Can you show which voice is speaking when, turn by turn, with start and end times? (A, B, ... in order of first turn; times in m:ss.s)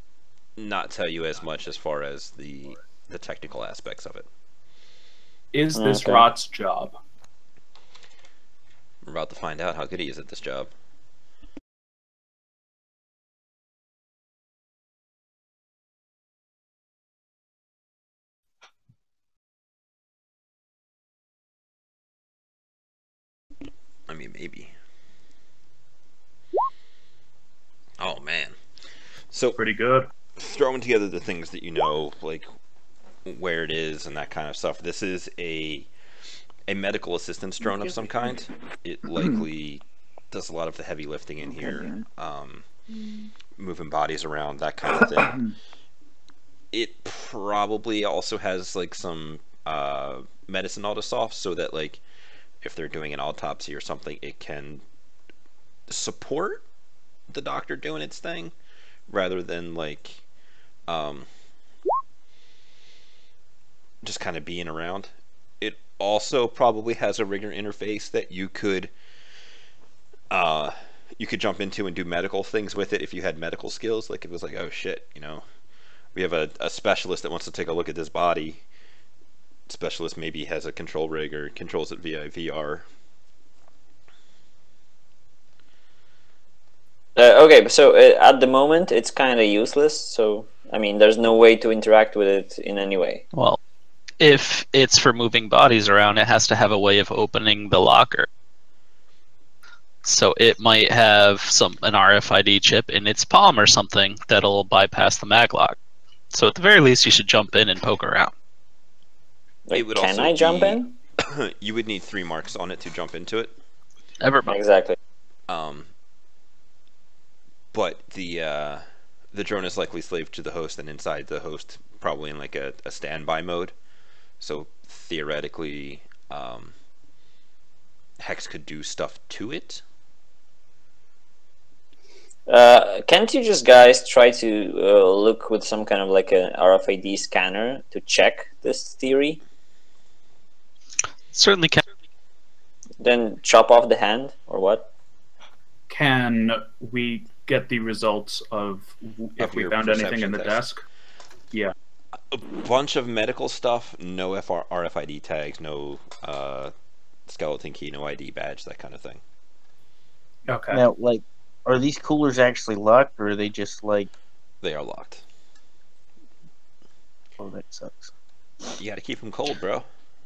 0:00.6-0:04.3 A
0:05.5-0:07.0 B
0:05.7-0:06.2 C
0:09.0-0:10.7 A
0:24.1-0:24.7 A
0:28.0-0:28.6 A
0:29.3-0:29.6 A
0:29.6-0:30.1 B
0:30.4-0:32.5 A
0:33.2-0:35.9 A
0:36.7-0:42.6 A
0:43.6-0:45.4 A
0:46.7-0:52.0 A
0:52.6-0:54.8 A
0:55.9-0:56.6 A
0:57.3-0:58.5 A
0:59.1-1:00.2 A
1:00.9-1:01.3 A
1:04.0-1:08.9 A
1:10.3-1:15.4 A
1:16.1-1:18.6 A
1:19.7-1:22.8 A
1:27.2-1:33.2 C
1:33.3-1:33.6 D
1:34.2-1:38.3 D
1:40.0-1:45.8 D
1:46.3-1:48.3 D
1:49.7-1:50.9 C
1:49.7-1:53.5 A
1:54.2-1:54.6 D
1:54.5-1:55.0 C
1:55.5-1:55.9 A
1:57.7-2:03.7 A
2:04.4-2:06.7 A
2:08.2-2:09.8 A
2:12.5-2:19.4 C
2:21.3-2:21.8 D
2:23.0-2:24.9 C
2:25.9-2:30.8 B
2:29.4-2:30.6 A
2:32.3-2:36.7 A
2:37.3-2:39.2 A
2:40.5-2:40.8 B
2:40.7-2:44.1 E
2:44.6-2:45.2 A
2:47.4-2:48.1 E
2:48.8-2:49.9 A